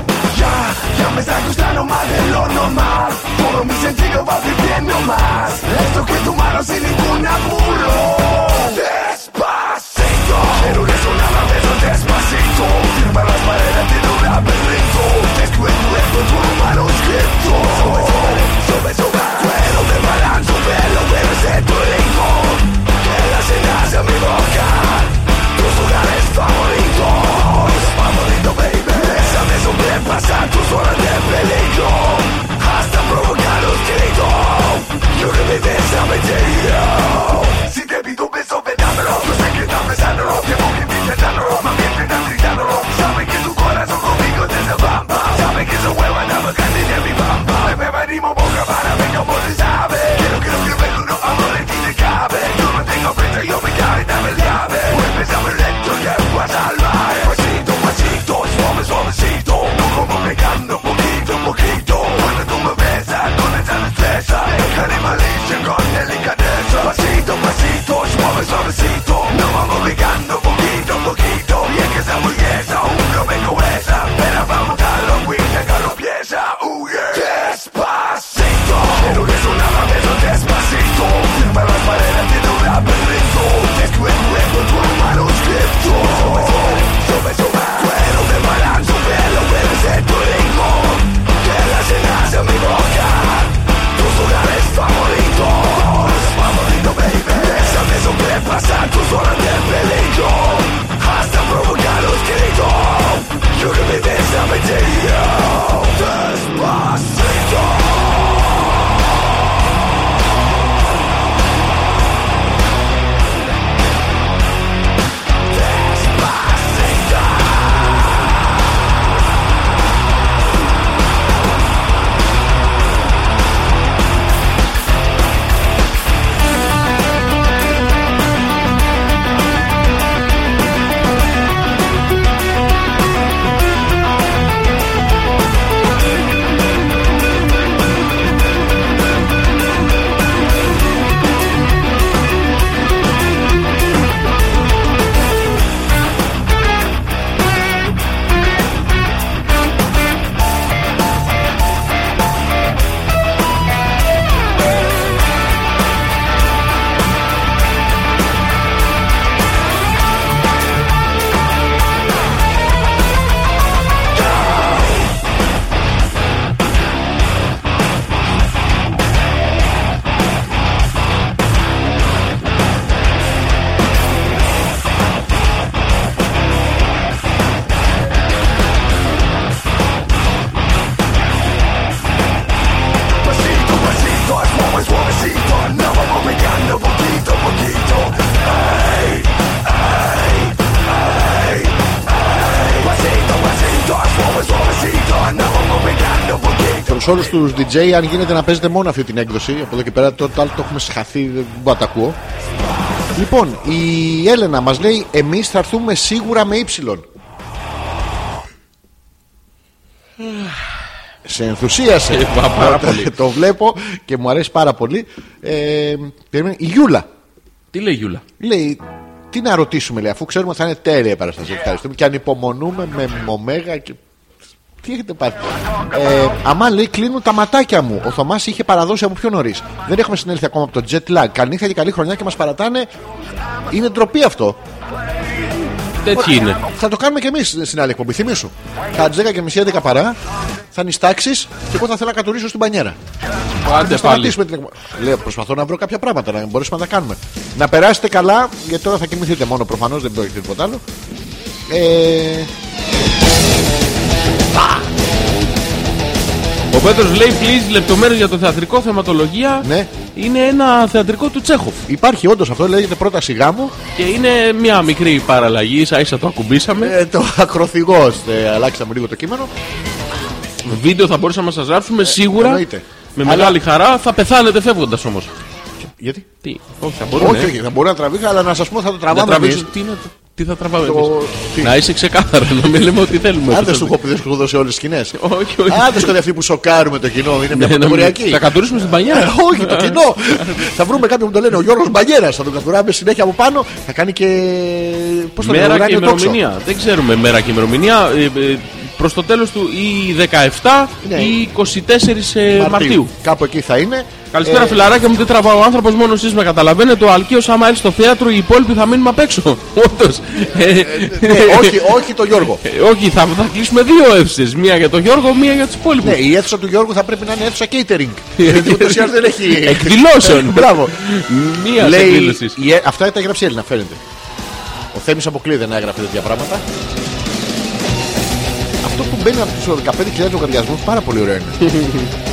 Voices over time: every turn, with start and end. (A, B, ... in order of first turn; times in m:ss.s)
0:00.3-1:48.0 A
1:55.5-1:57.5 A
3:03.2-3:17.1 A
3:16.9-3:22.2 B
3:23.1-3:27.0 B
3:30.2-3:30.5 C
3:31.2-3:37.1 B
3:32.1-3:33.1 C
3:37.7-3:38.2 C
3:38.4-3:44.0 B
3:44.8-3:52.9 B
3:53.7-3:54.6 B
3:56.0-3:56.6 C
3:56.1-4:00.2 B
4:00.7-4:03.0 B
4:03.6-4:04.4 C
4:03.6-4:10.8 B
4:11.7-4:12.5 B
4:14.5-4:14.8 B
4:16.7-4:21.8 C
4:19.6-4:19.9 B
4:21.9-4:23.7 B
4:24.0-4:27.0 C
4:26.8-4:29.5 B
4:30.6-4:32.6 C
4:32.0-4:33.6 B
4:33.2-4:35.3 C
4:35.8-4:36.3 B
4:36.4-4:37.5 C
4:37.2-4:39.7 B
4:39.1-4:44.0 C
4:40.8-4:41.8 B
4:43.5-4:56.4 B
4:45.2-4:46.1 C
4:47.5-4:50.8 C
4:55.4-5:03.1 C
5:01.0-5:01.4 B
5:02.5-5:04.9 B
5:04.3-5:11.9 C
5:10.5-5:12.6 B
5:12.6-5:16.2 C
5:16.0-5:24.0 B
5:18.4-5:22.6 C
5:24.9-5:26.6 B
5:28.8-5:31.7 B
5:31.6-5:32.1 C